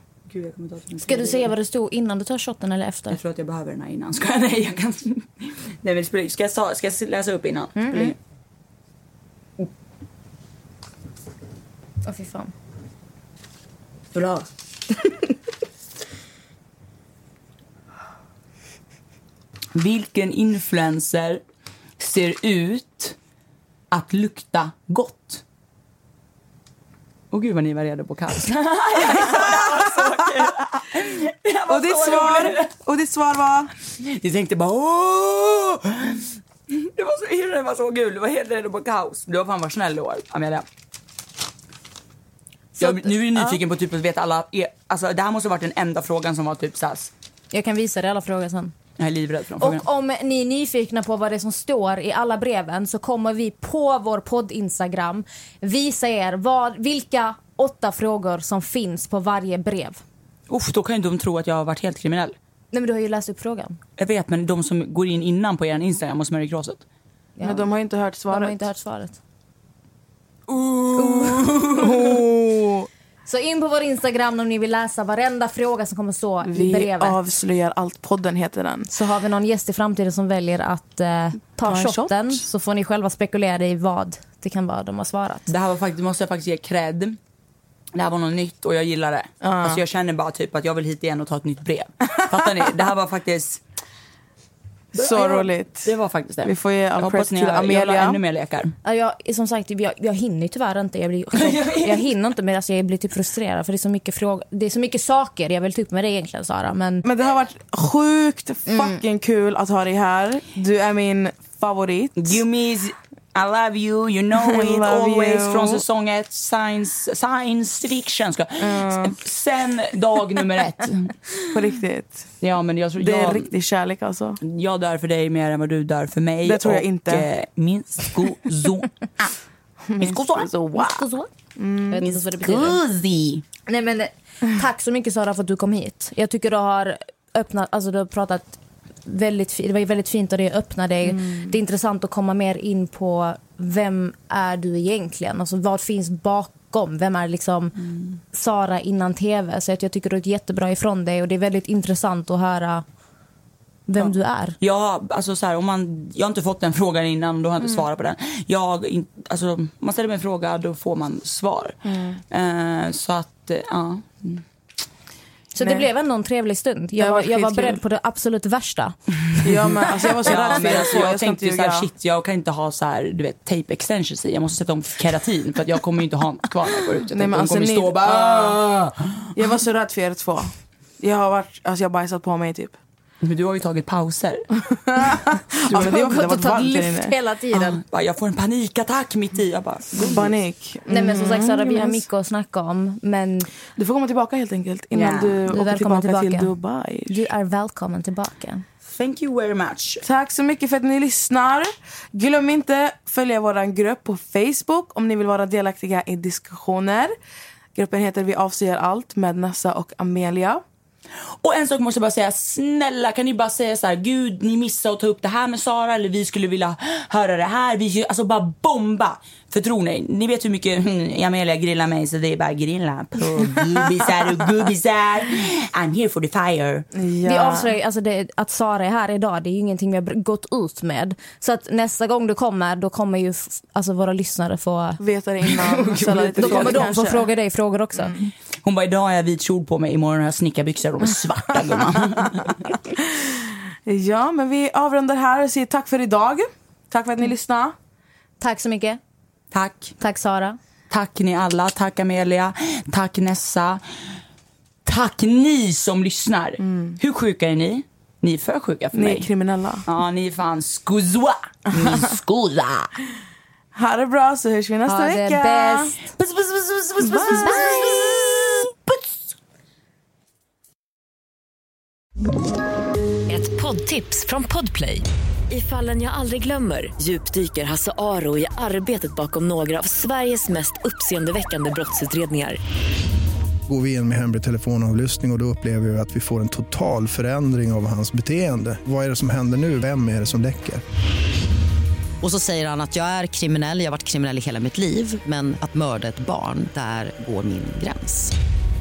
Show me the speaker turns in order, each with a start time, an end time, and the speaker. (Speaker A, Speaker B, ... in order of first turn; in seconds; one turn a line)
Speaker A: 0.3-1.5
Speaker B: 1.0-3.2
Speaker A: 3.1-8.2
Speaker B: 7.8-8.1
Speaker B: 12.0-12.5
Speaker A: 14.1-14.4
Speaker A: 19.7-21.4
Speaker A: 22.0-23.1
Speaker A: 23.9-25.4
Speaker A: 27.3-32.7
Speaker C: 31.7-33.7
Speaker A: 34.0-40.6
Speaker B: 42.8-43.6
Speaker A: 42.8-47.1
Speaker B: 47.5-48.7
Speaker A: 49.0-49.8
Speaker B: 49.6-60.0
Speaker A: 60.5-62.4
Speaker B: 62.7-63.8
Speaker A: 64.0-66.8
Speaker B: 67.4-67.7
Speaker C: 67.4-68.6
Speaker B: 68.3-69.2
Speaker A: 70.5-72.2
Speaker B: 71.0-71.5
Speaker C: 71.7-72.9
Speaker B: 73.2-77.2
Speaker C: 76.5-78.9
Speaker B: 78.9-85.5
Speaker C: 81.6-82.3
Speaker A: 85.5-87.2
Speaker A: 87.9-93.6
Speaker C: 89.4-89.8
Speaker A: 94.9-98.8
Speaker C: 94.9-95.9
Speaker C: 96.4-98.2
Speaker B: 98.8-107.0
Speaker A: 101.3-102.0
Speaker C: 107.0-112.4
Speaker B: 108.7-109.0
Speaker A: 112.2-121.2
Speaker C: 114.4-115.8
Speaker C: 118.6-119.2
Speaker C: 121.5-122.3
Speaker A: 122.4-123.5
Speaker C: 123.0-124.4
Speaker A: 124.4-129.3
Speaker C: 126.4-127.3
Speaker C: 129.9-131.1
Speaker A: 130.0-130.5
Speaker B: 130.8-131.3
Speaker C: 131.6-132.0
Speaker B: 131.9-132.8
Speaker A: 132.0-133.4
Speaker B: 133.7-147.8
Speaker C: 141.1-141.4
Speaker B: 148.3-152.8
Speaker B: 153.9-154.6
Speaker A: 154.6-161.8
Speaker C: 161.9-162.2
Speaker A: 162.3-164.4
Speaker B: 165.5-168.9
Speaker C: 165.6-165.8
Speaker C: 167.0-167.8
Speaker C: 169.4-171.9
Speaker A: 169.5-179.3
Speaker C: 177.1-178.6
Speaker C: 179.3-182.8
Speaker A: 183.2-184.5
Speaker C: 184.9-187.1
Speaker A: 185.6-186.3
Speaker B: 185.7-187.8
Speaker A: 187.5-190.3
Speaker C: 190.0-192.0
Speaker B: 190.9-193.5
Speaker C: 193.7-197.3
Speaker A: 194.9-195.4
Speaker B: 195.4-196.5
Speaker B: 197.1-198.6
Speaker A: 198.9-200.0
Speaker C: 200.0-207.1
Speaker C: 207.7-210.6
Speaker A: 211.4-226.8
Speaker C: 226.9-227.7
Speaker B: 227.2-235.0
Speaker C: 235.0-237.3
Speaker A: 235.4-236.9
Speaker B: 236.4-238.2
Speaker A: 238.6-242.7
Speaker C: 243.2-247.7
Speaker B: 248.4-249.0
Speaker A: 249.5-249.9
Speaker B: 250.0-250.6
Speaker A: 250.9-253.8
Speaker A: 254.8-259.3
Speaker C: 256.6-257.0
Speaker C: 258.9-259.8
Speaker A: 259.9-262.9
Speaker C: 263.7-265.9
Speaker B: 264.9-266.0
Speaker A: 266.1-269.1
Speaker C: 267.0-267.6
Speaker B: 267.3-268.0
Speaker D: 273.3-282.6
Speaker E: 283.6-290.8
Speaker F: 292.2-298.3